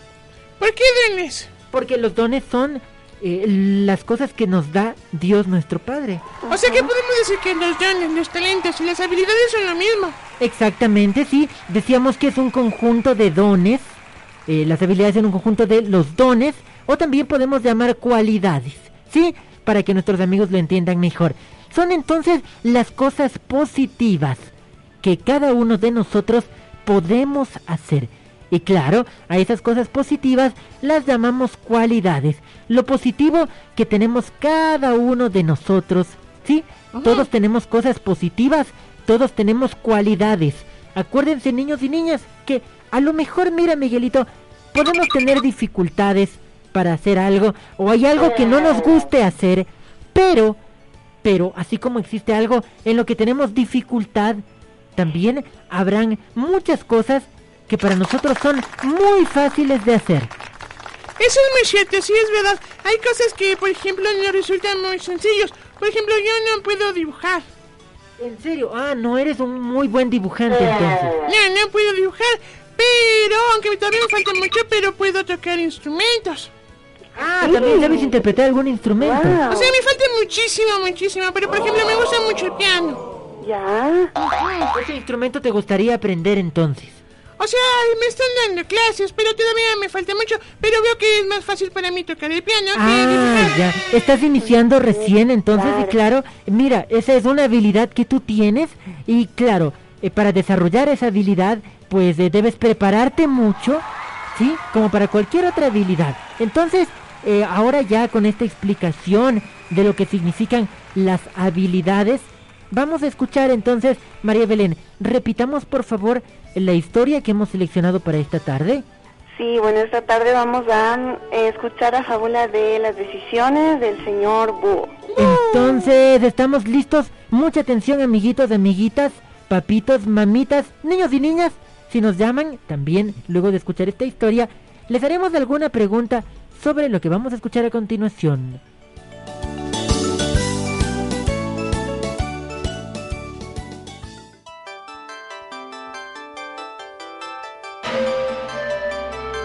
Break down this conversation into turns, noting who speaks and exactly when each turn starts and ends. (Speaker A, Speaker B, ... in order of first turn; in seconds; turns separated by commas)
Speaker A: 0.6-1.5, Speaker B: 1.7-6.2, Speaker C: 6.4-6.9, Speaker A: 6.5-10.2, Speaker B: 10.4-13.9, Speaker B: 14.5-24.5, Speaker B: 25.0-50.6, Speaker A: 36.9-37.3, Speaker B: 51.2-54.4, Speaker B: 55.0-60.3, Speaker A: 61.2-67.5, Speaker B: 68.2-71.1, Speaker A: 71.3-76.5, Speaker B: 77.2-79.4, Speaker C: 77.4-78.2, Speaker C: 79.0-79.7, Speaker A: 79.5-83.0, Speaker C: 83.4-84.1, Speaker A: 84.3-84.7, Speaker B: 84.7-87.0, Speaker A: 87.4-93.6, Speaker B: 92.8-118.8, Speaker C: 94.9-95.9, Speaker C: 119.3-125.0, Speaker A: 125.1-125.9, Speaker B: 125.2-138.6